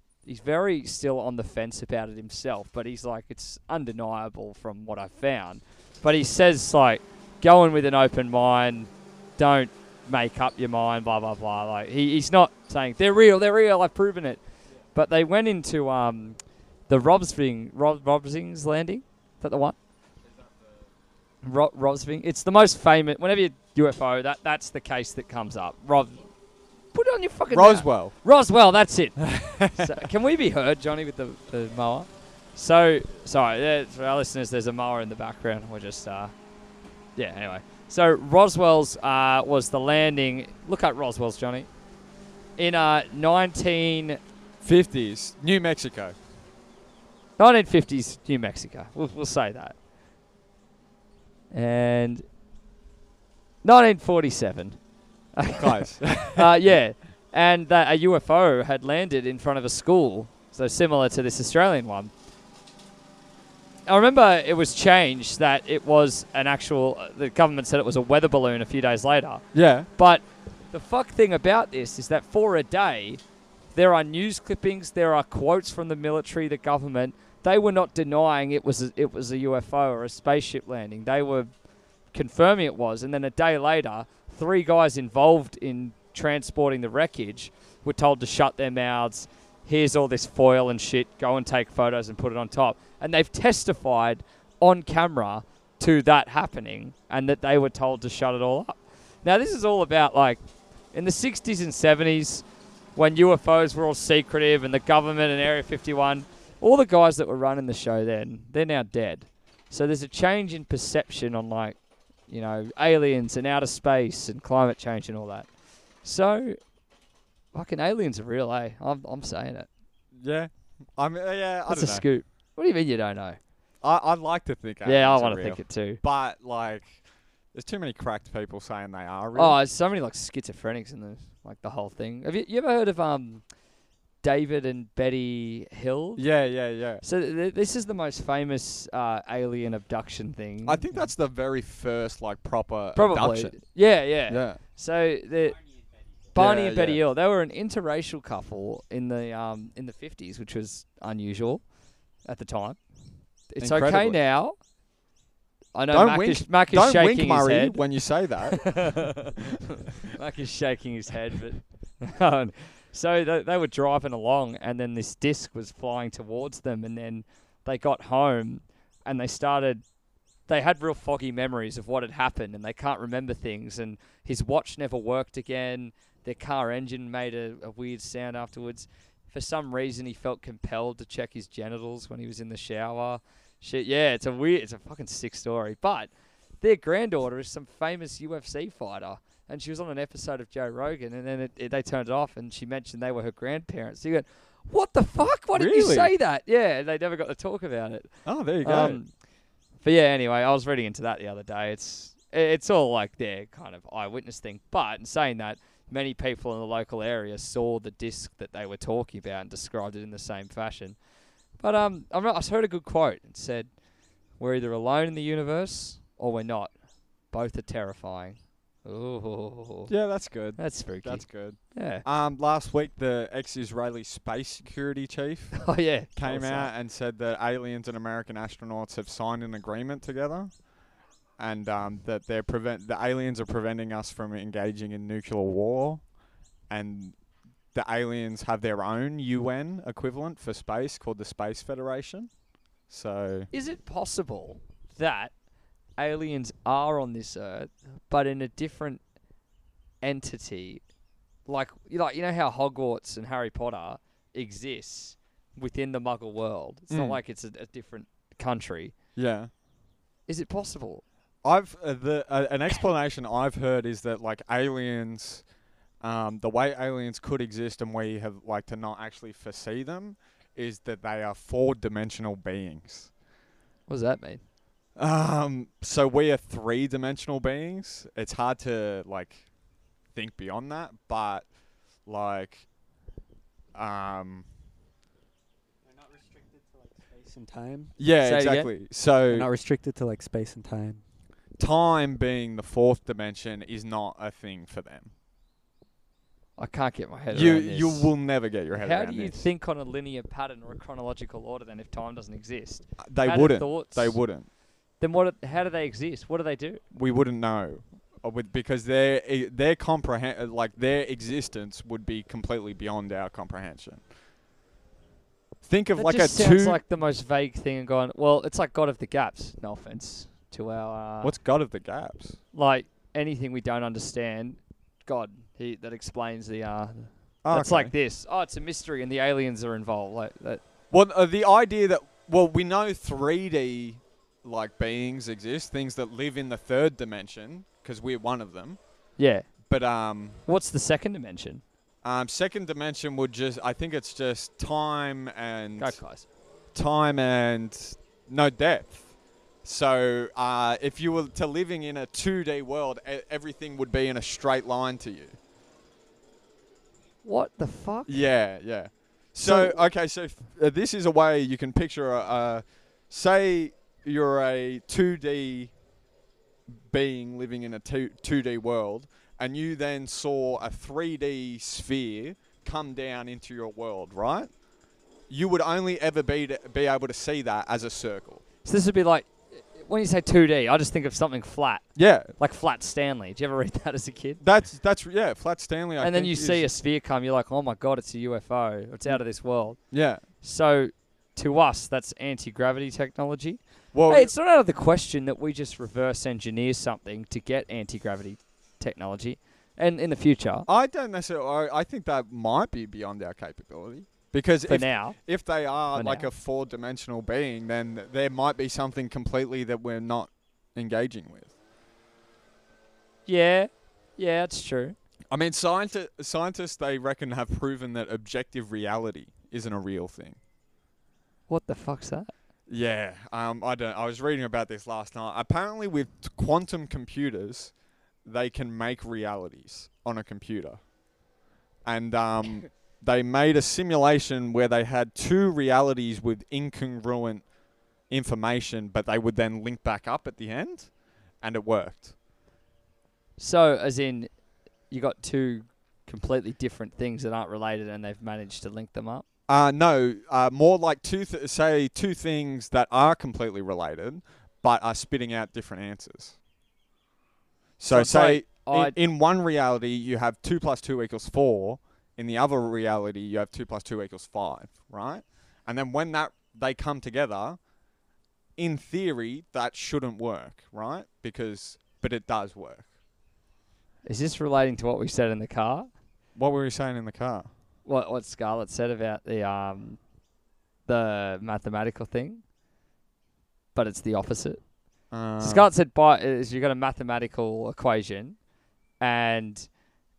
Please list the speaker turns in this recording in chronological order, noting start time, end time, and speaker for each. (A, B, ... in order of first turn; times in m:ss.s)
0:00.2-0:14.4 A
0:14.9-0:19.8 A
0:21.4-0:26.2 A
0:26.9-0:36.3 A
0:27.5-0:28.1 B
0:29.2-0:29.9 B
0:37.2-0:41.7 A
0:42.6-0:44.2 A
0:44.6-0:46.2 B
0:47.4-0:49.8 A
0:51.5-0:52.2 A
0:53.6-0:54.8 A
0:55.3-1:02.1 A
0:55.6-0:56.5 B
1:03.9-1:09.4 A
1:09.5-1:09.9 B
1:10.0-1:13.2 A
1:13.7-1:21.5 A
1:22.1-1:56.6 A
1:57.5-1:59.7 A
2:00.1-2:02.0 B
2:01.7-2:03.4 A
2:03.8-2:07.0 B
2:04.8-2:06.0 A
2:07.5-2:09.6 B
2:09.4-2:13.4 A
2:14.2-2:16.2 A
2:16.2-2:17.0 B
2:17.0-2:21.1 A
2:20.6-2:23.8 B
2:22.9-2:25.6 A
2:24.3-2:24.6 B
2:25.4-2:26.3 C
2:26.3-2:27.0 B
2:26.3-2:31.6 A
2:32.2-2:32.8 A
2:33.5-2:34.6 A
2:33.6-2:34.2 B
2:35.7-2:37.8 A
2:35.9-2:39.3 B
2:38.5-2:49.8 A
2:50.5-3:19.1 A
3:15.5-3:16.1 B
3:18.2-3:19.0 B
3:19.8-3:31.0 A
3:31.6-3:33.7 A
3:34.4-3:36.7 A
3:37.3-3:39.9 A
3:39.9-3:50.6 B
3:40.6-3:42.0 A
3:45.6-3:46.7 A
3:51.4-3:56.0 B
3:56.7-3:57.2 B
3:57.7-4:02.3 B
4:02.9-4:03.5 B
4:03.5-4:05.3 A
4:06.0-4:09.0 A
4:10.0-4:10.8 A
4:11.4-4:18.9 A
4:16.9-4:17.2 B
4:19.2-4:19.5 B
4:20.3-4:21.0 A
4:21.4-4:25.4 B
4:26.0-4:33.1 B
4:33.9-4:34.4 A
4:35.0-4:39.4 B
4:40.1-4:41.5 B
4:42.0-4:42.6 B
4:43.7-4:44.4 B
4:45.8-4:47.9 C
4:48.0-4:49.5 B
4:48.2-4:48.7 A
4:49.3-4:51.0 C
4:51.6-4:55.1 B
4:56.6-4:58.1 A
4:57.3-4:59.5 B
4:58.7-5:04.2 A
5:03.0-5:04.5 B
5:05.0-5:06.8 A
5:06.9-5:14.0 B
5:15.6-5:16.8 B
5:15.9-5:21.3 A
5:21.2-5:22.4 B
5:22.5-5:30.6 A
5:27.4-5:27.9 B
5:30.9-5:38.8 B
5:39.2-5:39.5 A
5:39.7-5:40.4 B
5:40.4-5:41.6 A
5:42.0-5:46.0 B
5:45.8-5:46.2 A
5:46.7-5:49.1 B
5:49.6-5:55.4 B
5:57.2-5:58.1 A
5:58.1-6:05.7 B
5:59.4-5:59.8 A
6:06.7-6:14.5 B
6:15.3-6:18.4 B
6:18.6-6:24.4 A
6:21.9-6:22.3 B
6:24.4-6:26.7 B
6:26.0-6:29.8 A
6:29.9-6:30.2 B
6:30.4-6:40.7 A
6:33.9-6:34.3 B
6:40.7-6:51.5 B
6:44.6-6:45.2 A
6:45.9-6:46.3 A
6:53.2-6:55.0 A
6:55.3-7:00.4 B
7:01.5-7:02.3 A
7:02.7-7:07.7 B
7:08.2-7:10.8 B
7:11.8-7:17.4 B
7:18.1-7:22.1 B
7:23.4-7:24.3 A
7:24.9-7:29.2 A
7:29.5-7:36.4 B
7:37.8-7:47.6 B
7:37.9-7:39.0 A
7:48.6-7:52.9 B
7:54.0-7:55.9 A
7:56.4-7:57.5 B
7:57.8-8:00.0 A
8:00.9-8:02.4 A
8:03.7-8:04.6 A
8:05.1-8:05.7 B
8:05.4-8:08.4 A
8:09.0-8:09.7 A